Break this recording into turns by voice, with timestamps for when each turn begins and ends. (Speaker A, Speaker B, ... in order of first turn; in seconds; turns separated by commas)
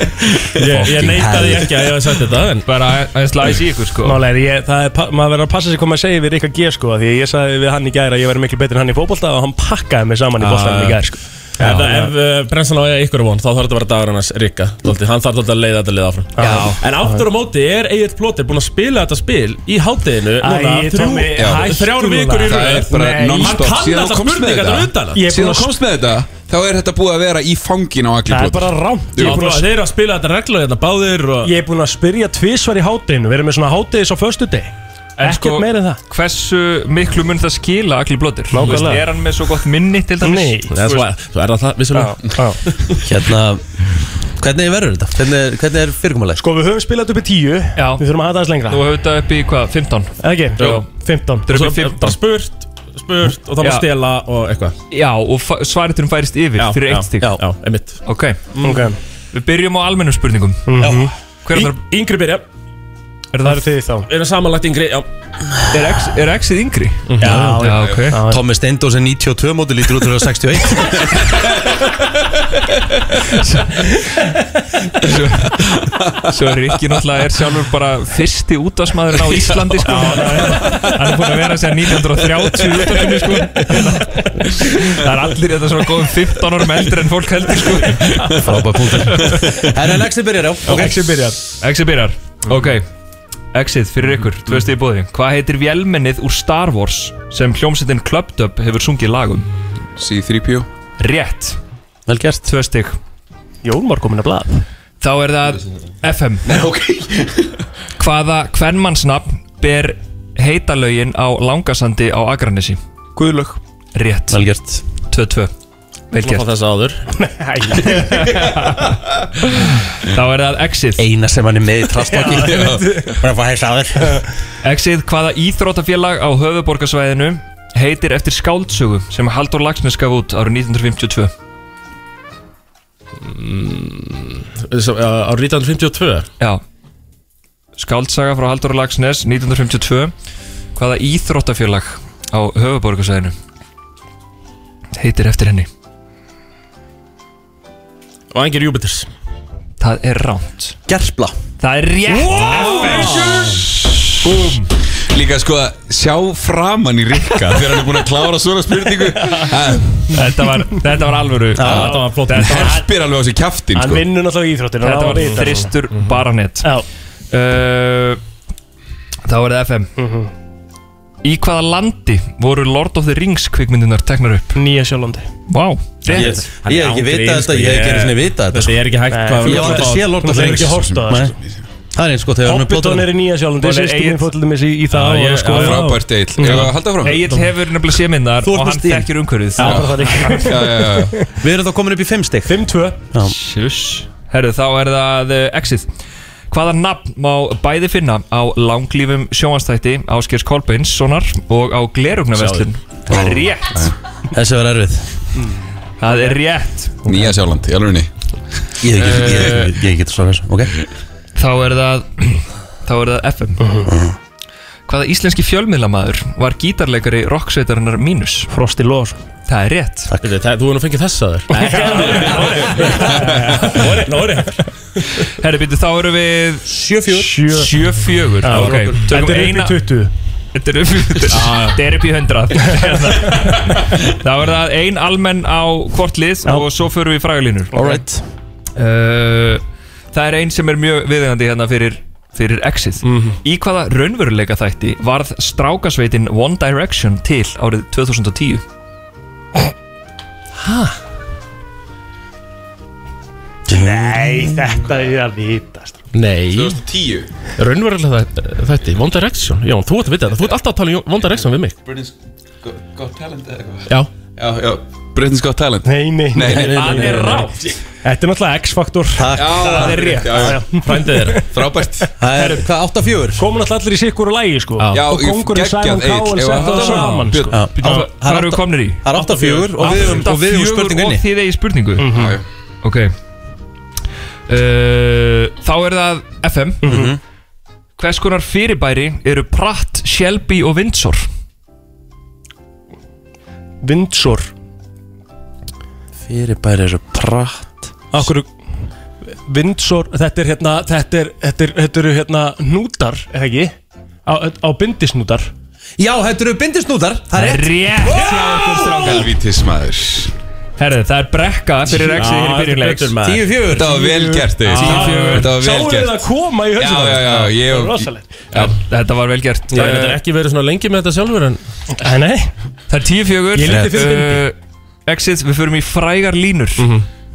Speaker A: 0.6-2.7, Speaker B: 0.8-1.4, Speaker C: 1.1-1.7, Speaker B: 2.6-4.2, Speaker D: 4.0-12.1, Speaker A: 10.4-11.0, Speaker A: 11.6-25.2, Speaker D: 16.4-17.3, Speaker B: 16.4-16.8, Speaker D: 20.4-23.7, Speaker E: 21.4-21.8, Speaker E: 22.4-29.4, Speaker D: 25.1-25.8, Speaker D: 28.3-29.7, Speaker A: 29.2-31.5, Speaker D: 31.4-36.0, Speaker B: 35.2-41.1, Speaker D: 38.5-39.0, Speaker A: 38.6-38.9, Speaker D: 40.2-40.7, Speaker A: 40.7-42.2, Speaker D: 42.3-42.6, Speaker C: 43.0-43.6, Speaker C: 44.4-46.4, Speaker D: 46.4-48.9, Speaker B: 47.8-48.0, Speaker B: 48.7-50.9, Speaker D: 50.2-51.5, Speaker B: 51.5-52.2, Speaker A: 51.5-54.8, Speaker B: 53.6-53.9, Speaker B: 54.9-57.4, Speaker A: 56.6-58.9, Speaker B: 58.0-58.4, Speaker D: 58.6-59.0, Speaker B: 59.3-60.8, Speaker D: 60.7-61.1, Speaker C: 60.8-61.1, Speaker B: 61.5-61.8, Speaker A: 61.5-62.5, Speaker B: 63.3-63.6, Speaker D: 63.5-64.1, Speaker A: 64.1-65.1, Speaker B: 65.7-68.2, Speaker A: 67.1-67.6, Speaker D: 67.2-68.4, Speaker C: 68.3-71.3, Speaker B: 73.5-74.1, Speaker E: 75.0-77.0, Speaker B: 75.1-75.5, Speaker B: 76.3-88.1, Speaker E: 79.1-81.1, Speaker D: 79.8-81.0, Speaker E: 82.4-82.8, Speaker D: 83.2-83.8, Speaker D: 88.2-88.6, Speaker C: 88.4-91.1, Speaker D: 90.7-91.4, Speaker B: 91.6-92.9, Speaker B: 93.5-99.5, Speaker E: 100.0-100.7, Speaker B: 101.0-101.6, Speaker C: 102.1-102.5, Speaker B: 102.5-103.0, Speaker D: 103.6-104.6, Speaker B: 105.0-106.6, Speaker E: 106.5-107.5, Speaker B: 108.0-112.8, Speaker B: 114.0-114.4, Speaker C: 114.3-114.8, Speaker B: 115.0-115.5, Speaker B: 116.1-116.5, Speaker A: 116.2-117.0, Speaker D: 117.2-118.5, Speaker B: 117.9-121.0, Speaker C: 121.0-124.0, Speaker D: 122.0-123.3, Speaker B: 124.6-131.3, Speaker A: 133.2-136.3, Speaker B: 137.8-140.1, Speaker B: 140.8-143.3, Speaker B: 145.0-145.7, Speaker A: 148.3-149.1, Speaker B: 149.8-150.8, Speaker C: 150.9-151.3, Speaker B: 151.6-153.6, Speaker E: 152.3-153.7, Speaker A: 152.5-153.2, Speaker D: 152.6-152.9, Speaker B: 154.2-154.7, Speaker E: 155.1-160.2, Speaker B: 160.1-162.6, Speaker C: 161.6-161.9, Speaker A: 161.6-162.8, Speaker E: 162.3-164.1, Speaker D: 162.5-162.8, Speaker D: 163.7-165.7, Speaker B: 164.8-166.8, Speaker A: 165.9-166.2, Speaker B: 167.3-168.2, Speaker B: 169.3-169.9, Speaker D: 170.0-170.3, Speaker B: 171.2-174.6, Speaker D: 174.6-175.3, Speaker B: 175.5-176.5, Speaker C: 176.1-178.8, Speaker A: 176.1-180.6, Speaker D: 179.1-181.3, Speaker C: 179.4-181.3, Speaker E: 180.7-181.6, Speaker C: 181.9-183.1, Speaker D: 182.4-186.7, Speaker B: 183.6-184.3, Speaker A: 184.9-185.9, Speaker E: 185.5-187.2, Speaker A: 186.5-187.5, Speaker B: 187.0-189.8, Speaker C: 188.4-189.1, Speaker D: 189.6-191.0, Speaker E: 189.6-191.3, Speaker C: 191.4-192.6, Speaker D: 192.5-193.1, Speaker B: 193.2-195.9, Speaker B: 196.5-203.9, Speaker A: 202.3-202.7, Speaker C: 203.1-203.6, Speaker C: 204.3-205.1, Speaker B: 206.0-207.2, Speaker E: 207.0-208.1, Speaker C: 208.8-210.7, Speaker B: 209.0-209.8, Speaker B: 211.4-213.6, Speaker D: 213.6-213.9, Speaker C: 213.9-214.2, Speaker B: 214.9-218.5, Speaker D: 218.5-219.2, Speaker B: 219.5-220.1, Speaker A: 220.2-224.6, Speaker D: 221.6-223.8, Speaker B: 221.7-222.7, Speaker B: 225.3-226.8, Speaker C: 226.7-227.3, Speaker D: 227.1-227.7, Speaker B: 227.4-229.9, Speaker D: 228.4-230.1, Speaker B: 230.5-237.8, Speaker A: 231.3-231.8, Speaker D: 232.6-233.5, Speaker D: 237.7-238.0, Speaker C: 237.7-238.2, Speaker B: 238.8-248.6, Speaker A: 243.0-243.4, Speaker A: 250.6-250.9, Speaker D: 253.7-256.0, Speaker C: 253.7-254.6, Speaker A: 256.1-256.8, Speaker E: 256.5-257.3, Speaker A: 257.6-261.8, Speaker E: 261.8-267.4, Speaker D: 265.9-272.1, Speaker A: 266.6-267.7, Speaker C: 269.2-270.1, Speaker E: 269.3-270.6, Speaker B: 269.8-270.3, Speaker A: 270.8-271.4, Speaker E: 271.5-272.1, Speaker C: 272.2-273.4, Speaker D: 273.4-278.1, Speaker E: 274.9-277.7, Speaker B: 276.6-277.1, Speaker C: 277.5-281.2, Speaker B: 277.8-279.1, Speaker A: 279.1-280.3, Speaker B: 279.8-282.1, Speaker D: 282.0-282.4, Speaker E: 282.1-282.4, Speaker B: 282.8-283.1, Speaker B: 284.5-286.9, Speaker D: 286.8-287.1, Speaker C: 286.9-287.2, Speaker B: 288.0-291.3, Speaker D: 293.8-294.5, Speaker C: 296.3-297.9, Speaker D: 298.1-298.5, Speaker D: 299.5-303.7, Speaker D: 304.3-305.5, Speaker C: 306.0-309.2, Speaker B: 307.4-309.3, Speaker D: 308.1-308.7, Speaker E: 308.9-310.3, Speaker B: 310.8-313.2, Speaker A: 311.9-313.6, Speaker C: 313.2-314.1, Speaker E: 313.6-318.6, Speaker D: 313.9-318.5, Speaker B: 314.7-315.6, Speaker A: 314.8-315.2, Speaker B: 318.5-320.2, Speaker A: 319.7-321.6, Speaker D: 321.9-322.5, Speaker B: 322.9-326.9, Speaker D: 323.5-324.4, Speaker A: 326.8-327.1